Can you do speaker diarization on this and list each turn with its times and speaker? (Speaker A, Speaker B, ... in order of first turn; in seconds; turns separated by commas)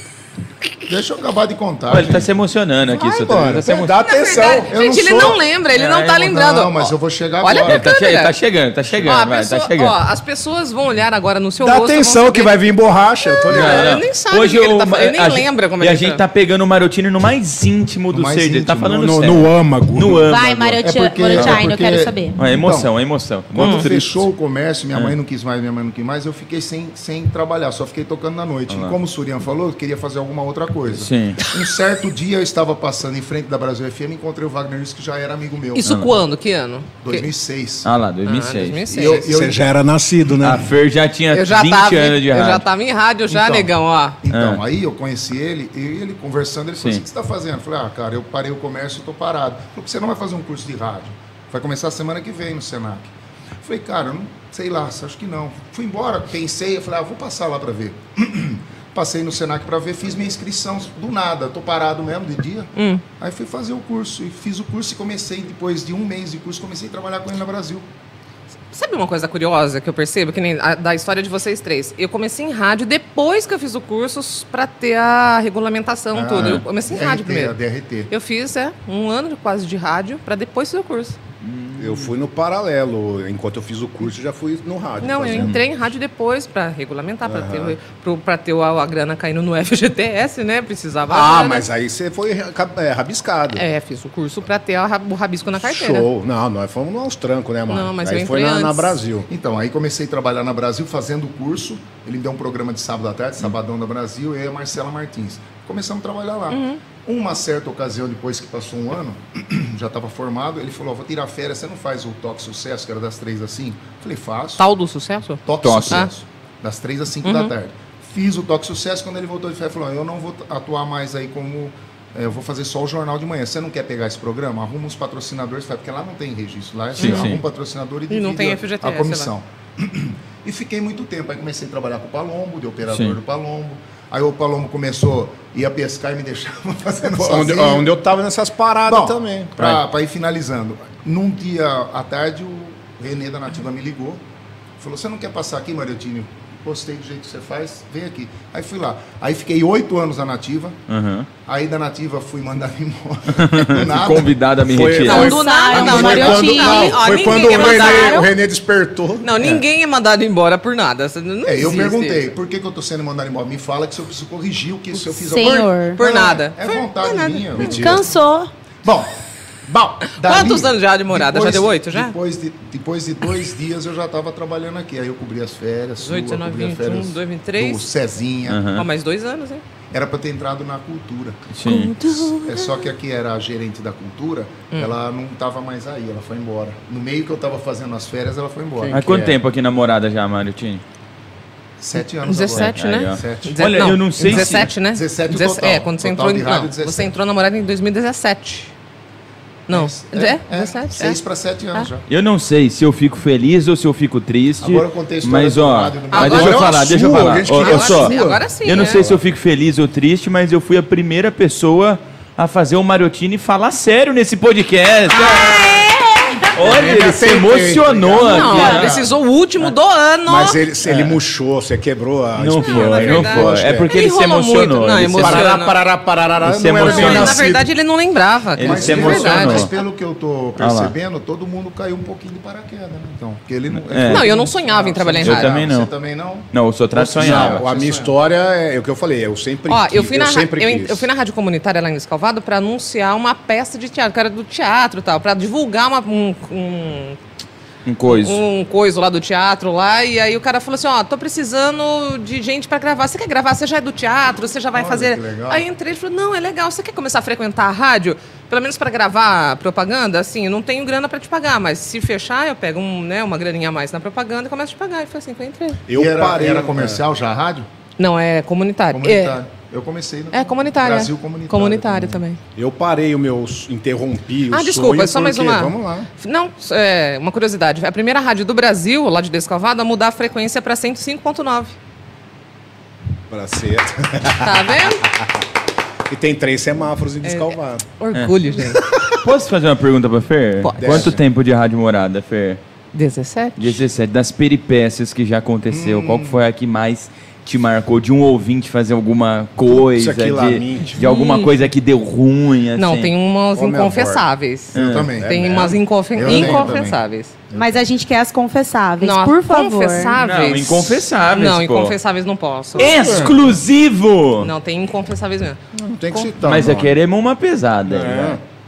Speaker A: 0.9-2.3, Speaker B: 1.9-3.9, Speaker C: 2.9-5.3, Speaker D: 3.8-8.3, Speaker A: 4.7-5.4, Speaker B: 5.7-6.4, Speaker A: 6.3-7.9, Speaker B: 7.7-10.0, Speaker D: 9.0-12.7, Speaker C: 11.6-14.0, Speaker D: 13.2-16.2, Speaker B: 13.5-20.8, Speaker A: 18.1-19.2, Speaker C: 18.9-20.4, Speaker E: 20.3-22.3, Speaker A: 20.8-22.9, Speaker B: 21.3-21.6, Speaker B: 22.4-24.2, Speaker A: 23.5-36.0, Speaker D: 23.6-23.9, Speaker B: 28.7-29.0, Speaker B: 30.9-31.4, Speaker D: 35.8-37.3, Speaker B: 35.9-36.1, Speaker A: 37.0-37.9, Speaker B: 37.8-39.2, Speaker D: 38.2-39.3, Speaker A: 38.9-39.6, Speaker C: 39.2-40.7, Speaker B: 40.4-42.6, Speaker D: 41.3-44.2, Speaker A: 43.3-67.9, Speaker B: 44.3-44.6, Speaker D: 62.8-63.0, Speaker D: 68.7-77.5, Speaker A: 76.1-78.1, Speaker D: 78.1-81.2, Speaker B: 81.4-82.1, Speaker C: 81.8-85.6, Speaker D: 85.0-91.7, Speaker C: 87.2-87.8, Speaker C: 91.1-93.7, Speaker D: 93.5-96.1, Speaker C: 95.6-99.3, Speaker D: 97.7-99.0, Speaker A: 99.3-114.6, Speaker D: 106.5-106.8, Speaker D: 114.6-116.1, Speaker A: 115.5-137.9, Speaker B: 115.6-116.1, Speaker D: 117.2-117.5, Speaker B: 127.0-127.4, Speaker D: 127.0-127.3, Speaker D: 128.1-129.3, Speaker B: 132.9-133.2, Speaker C: 137.2-139.8, Speaker A: 138.9-144.2, Speaker A: 144.8-150.8, Speaker B: 150.9-151.3, Speaker A: 151.5-154.3, Speaker B: 153.4-155.4, Speaker C: 154.7-159.5, Speaker D: 155.0-158.3, Speaker E: 155.1-158.3, Speaker D: 159.2-162.2, Speaker A: 161.4-168.1, Speaker E: 165.2-166.0, Speaker D: 165.9-168.0, Speaker C: 167.6-167.9, Speaker E: 167.6-168.5, Speaker A: 168.8-169.2, Speaker A: 169.7-178.6, Speaker D: 170.1-172.2, Speaker D: 176.0-177.8, Speaker B: 178.5-178.9, Speaker D: 178.8-179.6, Speaker A: 179.9-181.5, Speaker B: 181.5-182.0, Speaker D: 181.7-182.3, Speaker E: 181.9-182.5, Speaker A: 182.4-189.4, Speaker B: 188.9-190.8, Speaker A: 191.8-197.1, Speaker D: 192.2-198.7, Speaker B: 192.6-194.7, Speaker D: 199.7-201.2, Speaker A: 199.7-202.1, Speaker B: 202.1-215.8, Speaker A: 204.6-206.7, Speaker D: 206.1-206.8, Speaker C: 206.2-209.2, Speaker D: 207.4-209.0, Speaker D: 215.3-216.5, Speaker E: 215.3-216.4, Speaker B: 216.5-219.0, Speaker C: 216.6-219.1, Speaker D: 218.2-220.6, Speaker A: 218.6-219.0, Speaker C: 220.3-223.9, Speaker B: 220.8-221.2, Speaker B: 222.4-225.5, Speaker D: 222.6-225.8, Speaker C: 225.2-227.7, Speaker B: 226.4-227.5, Speaker D: 226.8-229.7, Speaker B: 228.6-229.7, Speaker A: 228.6-236.5, Speaker B: 230.6-230.9, Speaker B: 233.9-234.3, Speaker D: 234.1-235.5, Speaker B: 235.2-235.9, Speaker B: 236.5-237.6, Speaker C: 236.9-241.1, Speaker A: 237.2-238.1, Speaker D: 239.7-247.2, Speaker B: 247.9-248.4, Speaker D: 248.1-265.8, Speaker A: 254.7-255.7, Speaker C: 265.9-267.0, Speaker A: 265.9-267.7, Speaker D: 268.0-269.4, Speaker A: 268.9-272.2, Speaker D: 270.3-272.4, Speaker C: 272.6-276.1, Speaker D: 274.5-281.7, Speaker C: 283.3-284.9, Speaker D: 284.4-285.1, Speaker C: 286.1-287.9, Speaker D: 287.2-288.8, Speaker C: 288.7-289.1, Speaker B: 289.2-292.6, Speaker D: 290.6-291.1, Speaker C: 290.8-291.2, Speaker D: 292.9-293.8, Speaker B: 293.6-303.1, Speaker A: 295.7-296.4, Speaker C: 299.7-301.0, Speaker D: 300.9-301.5, Speaker D: 302.8-307.4, Speaker C: 303.5-304.3, Speaker B: 304.7-305.1, Speaker A: 304.7-305.5, Speaker C: 305.2-306.8, Speaker A: 306.1-307.0, Speaker E: 307.5-310.2, Speaker D: 309.0-313.2, Speaker B: 310.2-311.9, Speaker B: 312.8-314.5, Speaker C: 312.8-313.5, Speaker D: 314.4-315.6, Speaker C: 315.8-316.9, Speaker B: 316.4-318.4, Speaker C: 317.9-318.4